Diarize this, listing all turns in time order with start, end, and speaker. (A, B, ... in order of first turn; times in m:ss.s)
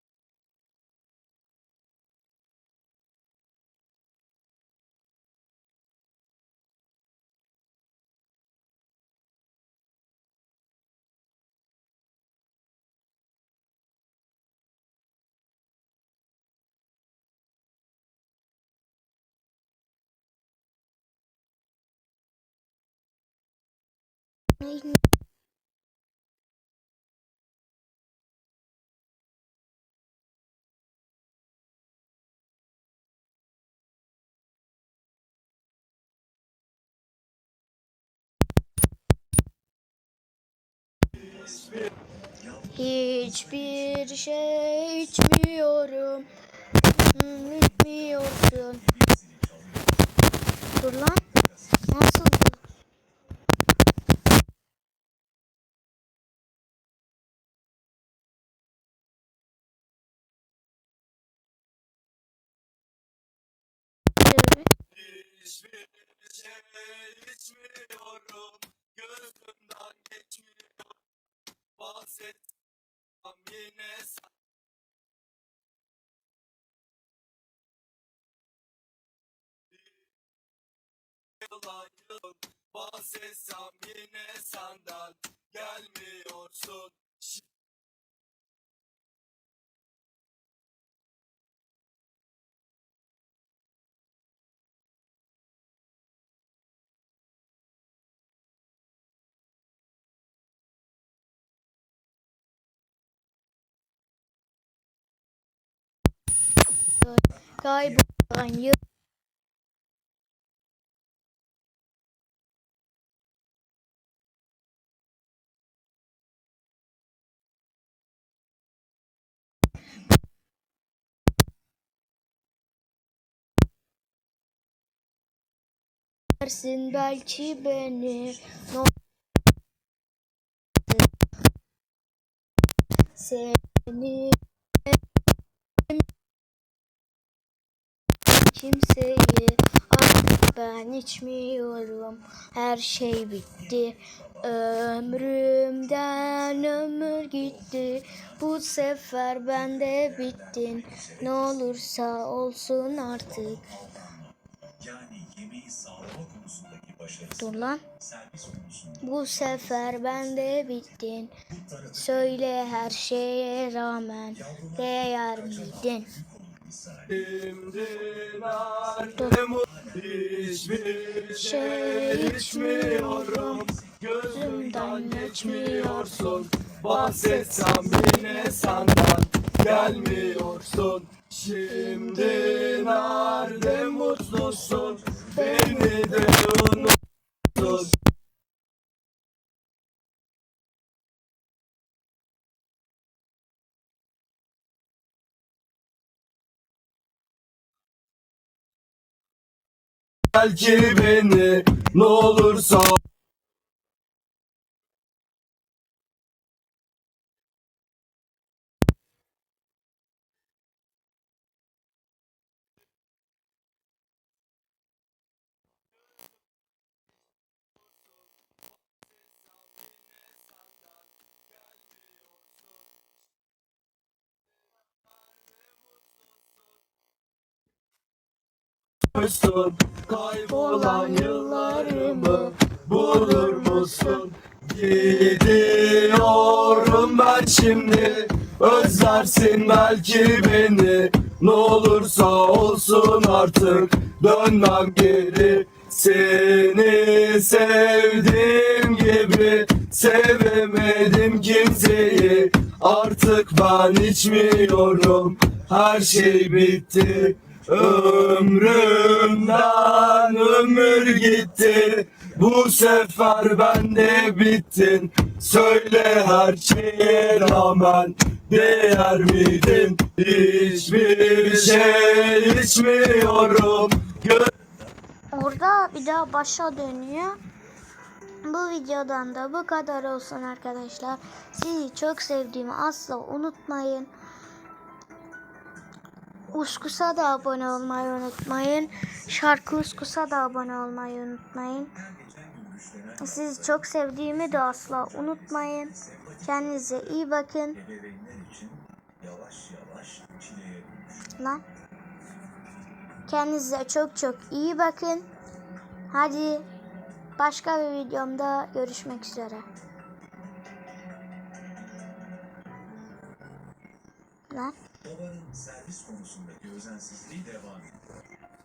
0:24.6-0:25.0 A
0:42.3-0:43.6 B
0:42.7-0:46.3 A
0:47.1-0:48.8 A
0:48.8-0:50.4 B
0:50.8-0:51.2 A
0:51.9-0:52.6 A
1:04.2-1:04.7 A
1:04.9-1:11.0 C
1:11.8-1:12.5 C
1:13.2-1:14.3 C
1:19.7-1:20.0 C
1:21.4-1:27.4 C
1:47.0-1:48.8 A
2:06.4-2:08.9 A
2:13.1-2:14.4 A
2:18.3-2:33.7 A
2:27.7-2:28.4 B
2:29.8-2:31.4 B
2:33.5-2:37.4 B
2:37.4-2:37.8 A
2:37.9-2:40.0 B
2:39.0-2:41.3 A
2:41.5-2:42.2 B
2:41.9-2:46.2 A
2:44.5-2:44.8 B
2:45.6-2:47.1 B
2:47.1-3:07.0 C
2:51.2-2:53.7 A
2:54.3-2:58.9 A
3:01.7-3:06.9 A
3:07.5-3:07.9 C
3:07.6-3:07.8 A
3:20.3-3:23.0 C
3:37.8-3:42.8 C
3:44.9-3:46.7 C
3:49.1-4:34.5 C
3:50.5-3:54.2 A
4:34.5-4:34.9 B
4:35.3-4:37.4 A
4:38.4-4:44.1 A
4:46.5-4:51.9 A
4:49.0-4:49.4 B
4:52.0-4:53.5 B
4:53.2-4:57.8 A
4:54.5-4:56.9 B
4:57.8-5:01.2 B
5:01.4-5:01.6 A
5:03.3-5:05.3 A
5:06.1-5:06.7 A
5:07.4-5:09.6 A
5:14.5-5:14.8 A
5:15.0-5:18.1 B